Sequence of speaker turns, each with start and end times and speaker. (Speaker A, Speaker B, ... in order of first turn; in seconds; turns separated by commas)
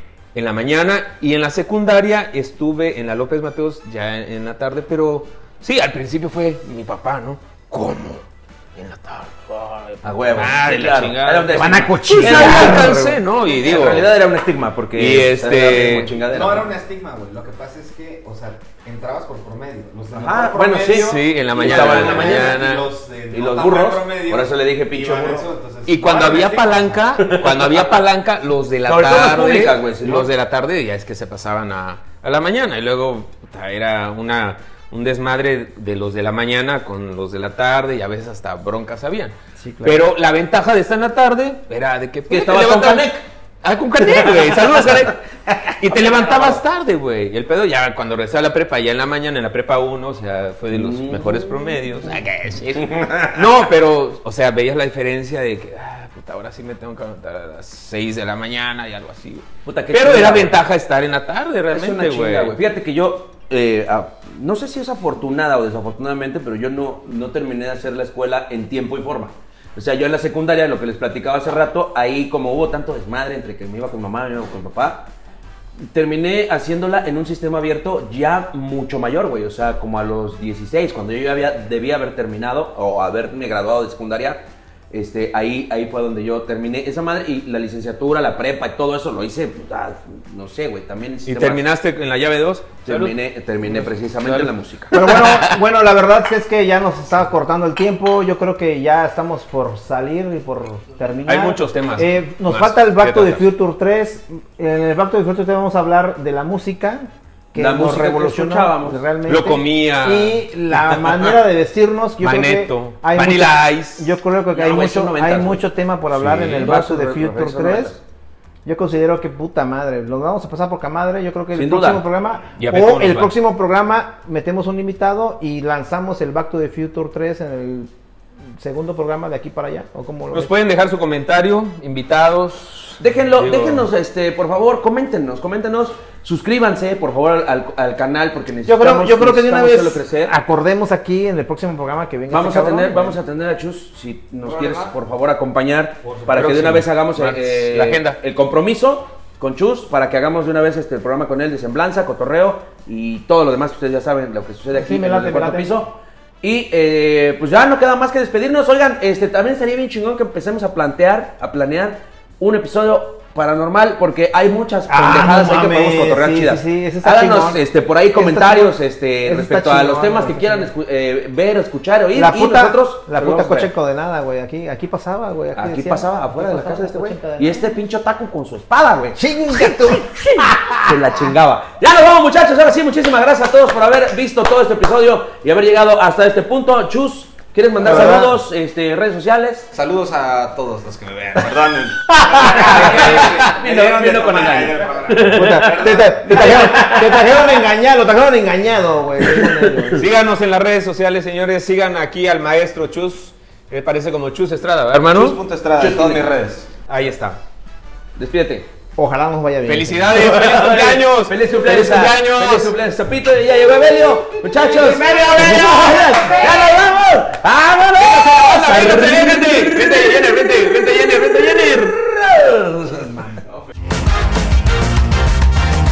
Speaker A: 0.3-14.1, Speaker B: 10.0-13.0, Speaker C: 11.5-13.2, Speaker B: 13.5-16.7, Speaker A: 14.9-16.1, Speaker D: 16.3-27.0, Speaker B: 20.1-22.6, Speaker A: 20.9-22.9, Speaker B: 23.3-25.5, Speaker A: 25.9-62.6, Speaker B: 27.2-27.9, Speaker B: 28.9-30.3, Speaker C: 39.6-40.1, Speaker B: 42.3-43.2, Speaker B: 44.4-44.7, Speaker B: 46.0-46.5, Speaker B: 50.7-51.7, Speaker B: 52.8-53.4, Speaker B: 59.6-60.6, Speaker B: 61.7-75.1, Speaker B: 75.8-91.7, Speaker A: 91.3-93.2, Speaker B: 92.8-95.4, Speaker A: 93.7-95.3, Speaker C: 94.9-118.0, Speaker A: 101.3-103.5, Speaker B: 107.5-109.0, Speaker A: 109.3-110.4, Speaker A: 112.2-114.1, Speaker B: 114.5-118.0, Speaker C: 118.7-127.9, Speaker B: 121.5-122.1, Speaker A: 122.6-123.3, Speaker C: 128.6-130.5, Speaker A: 130.3-133.9, Speaker B: 133.0-140.4, Speaker C: 138.7-143.2, Speaker B: 142.3-173.7, Speaker D: 144.4-144.9, Speaker D: 146.0-146.5, Speaker A: 146.3-148.2, Speaker C: 154.7-155.8, Speaker C: 164.9-167.6, Speaker C: 168.1-170.7, Speaker C: 172.2-177.8, Speaker B: 175.6-189.7, Speaker C: 179.2-181.3, Speaker C: 187.8-188.4, Speaker D: 189.7-196.9, Speaker B: 192.1-197.5, Speaker C: 195.2-200.1, Speaker B: 199.2-200.0, Speaker A: 199.9-205.4, Speaker D: 205.1-206.8, Speaker B: 205.8-206.3, Speaker A: 206.9-207.4, Speaker B: 208.2-208.7, Speaker C: 209.0-210.2, Speaker A: 209.6-212.8, Speaker B: 210.1-220.5, Speaker D: 214.5-215.5, Speaker C: 215.2-216.7, Speaker A: 218.0-222.0, Speaker B: 222.1-223.2